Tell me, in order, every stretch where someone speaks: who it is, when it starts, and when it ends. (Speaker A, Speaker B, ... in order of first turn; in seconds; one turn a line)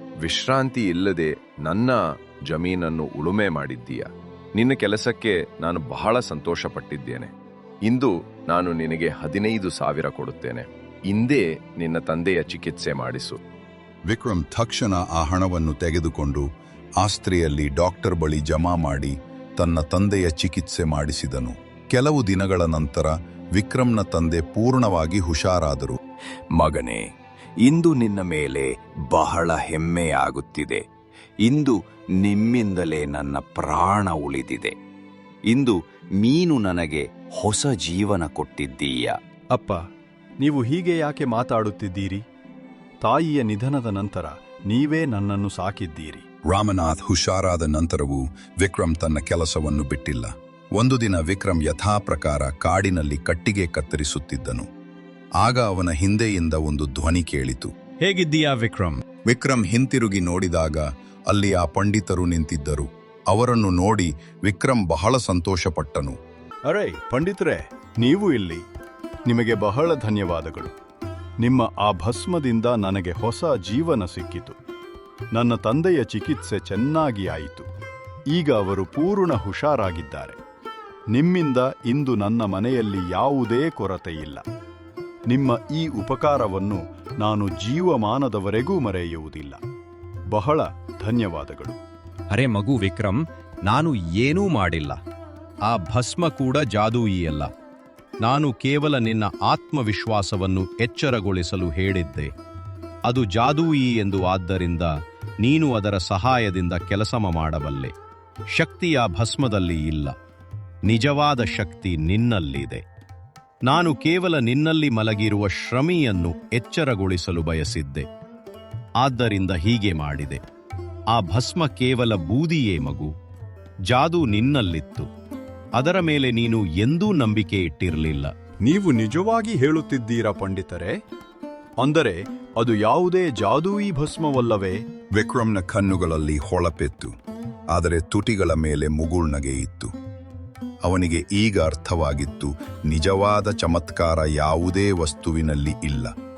Speaker A: 0.2-7.3
Speaker A: 7.8-13.4
Speaker B: 14.1-16.5
Speaker B: 17.0-26.0
Speaker C: 27.6-30.8
Speaker C: 31.5-33.0
Speaker C: 33.8-34.7
Speaker C: 36.4-37.6
Speaker D: 39.5-39.8
Speaker D: 40.4-42.2
Speaker D: 43.0-46.2
Speaker B: 46.5-54.7
Speaker B: 55.4-57.7
Speaker E: 58.0-59.0
Speaker B: 59.2-66.2
Speaker D: 66.7-68.6
Speaker D: 69.3-70.7
Speaker D: 71.4-74.6
Speaker D: 75.3-77.7
Speaker D: 78.3-80.4
Speaker D: 81.1-84.4
Speaker D: 85.3-89.6
Speaker D: 90.3-91.8
Speaker E: 92.3-95.0
Speaker E: 95.7-97.5
Speaker E: 98.2-102.3
Speaker E: 103.1-104.9
Speaker E: 105.4-107.9
Speaker E: 108.5-110.1
Speaker E: 110.9-112.8
Speaker E: 113.7-118.1
Speaker E: 119.0-120.4
Speaker E: 121.1-123.1
Speaker E: 123.9-125.1
Speaker E: 125.8-128.3
Speaker D: 128.6-131.0
Speaker D: 131.8-134.8
Speaker B: 135.2-137.1
Speaker B: 137.7-139.9
Speaker B: 140.8-146.1